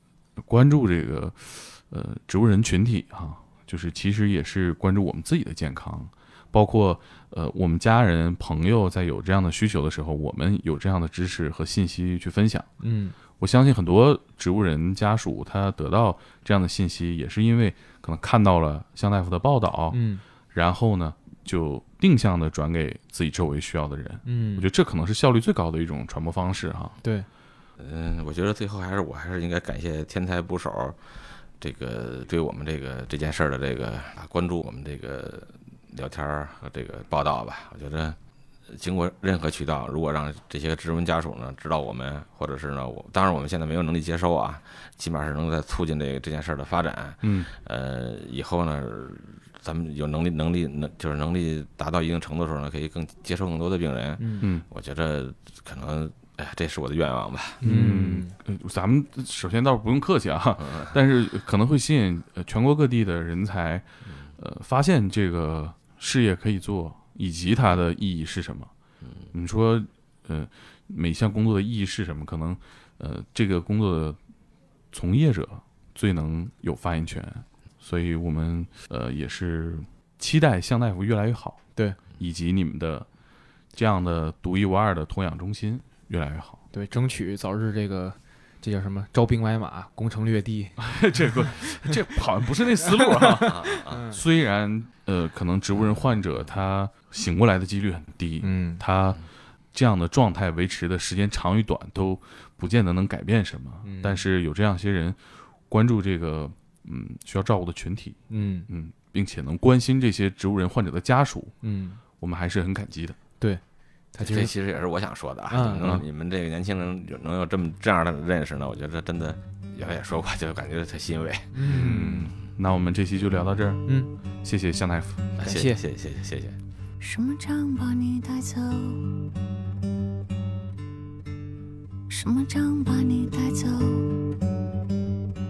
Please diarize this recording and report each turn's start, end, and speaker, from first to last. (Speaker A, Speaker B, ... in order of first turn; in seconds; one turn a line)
Speaker A: 0.4-12.7
Speaker B: 12.8-13.2
Speaker A: 13.4-20.0
Speaker B: 19.9-20.2
Speaker A: 20.5-26.9
Speaker B: 24.2-24.7
Speaker C: 27.8-31.0
Speaker C: 31.6-57.6
Speaker A: 47.2-47.5
Speaker B: 54.2-54.5
Speaker B: 57.6-58.3
Speaker A: 57.6-63.9
Speaker C: 60.6-61.0
Speaker A: 64.4-68.7
Speaker C: 69.0-69.3
Speaker A: 69.3-74.2
Speaker A: 74.9-81.6
Speaker A: 82.1-83.1
Speaker A: 83.7-86.6
Speaker B: 86.7-90.9
Speaker A: 90.8-105.2
Speaker B: 92.9-94.2
Speaker C: 93.4-94.0
Speaker B: 98.4-98.8
Speaker B: 103.8-104.2
Speaker A: 105.7-111.5
Speaker B: 108.3-108.7
Speaker B: 111.6-112.0
Speaker A: 112.2-113.2
Speaker B: 114.1-114.5
Speaker C: 114.2-121.5
Speaker B: 115.5-116.0
Speaker B: 121.5-122.3
Speaker A: 121.6-123.8
Speaker A: 124.4-125.2
Speaker C: 125.4-126.6
Speaker B: 125.4-125.8
Speaker D: 127.0-129.1
Speaker D: 132.1-134.2